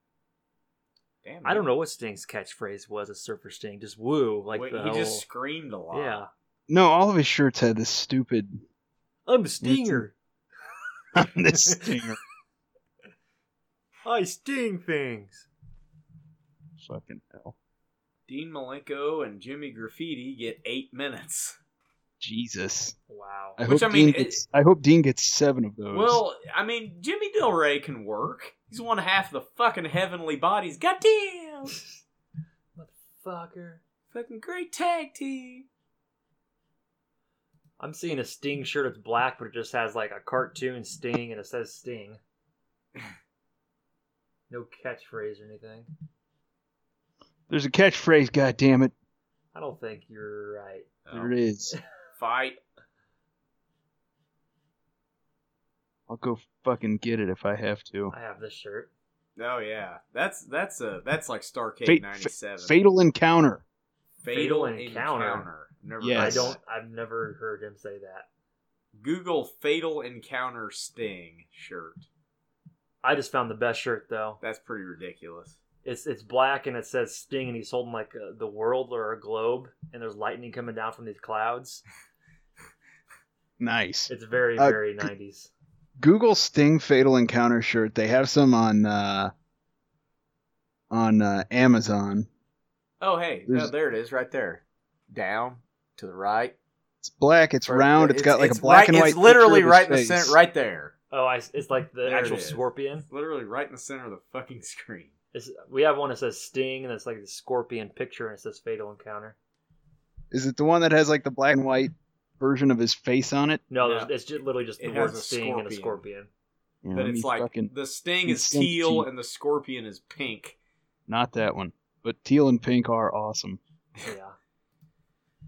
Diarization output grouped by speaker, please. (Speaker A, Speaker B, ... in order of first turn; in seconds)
Speaker A: 1.2-1.7, 4.5-6.2, 18.3-21.6, 23.7-24.4, 25.9-31.8, 34.1-35.7, 51.0-51.3, 52.2-52.6, 59.4-62.8, 64.2-66.6, 69.0-72.1, 74.4-75.6, 93.0-96.5, 97.7-100.9, 102.0-105.1, 113.8-114.1, 114.8-116.0, 116.9-120.6
Speaker B: 1.4-5.2, 5.9-6.3, 9.3-10.1, 11.5-11.9, 14.1-15.5, 23.1-23.6, 32.8-33.8, 37.8-42.2, 44.5-45.9, 49.5-50.9, 58.1-58.9, 64.3-65.5, 66.2-68.3, 73.0-74.4, 75.8-81.8, 84.1-85.5, 101.1-103.1, 105.3-109.4, 113.7-116.3, 124.0-124.4
Speaker C: 6.7-8.6, 9.6-10.0, 11.2-12.2, 16.8-17.5, 22.2-22.9, 23.6-26.2, 47.5-48.9, 51.1-51.7, 56.1-58.1, 61.9-63.6, 66.0-66.5, 83.6-85.1, 86.0-89.3, 90.9-92.3, 97.0-100.4, 110.3-113.6, 116.8-117.7, 118.3-119.1, 121.1-123.6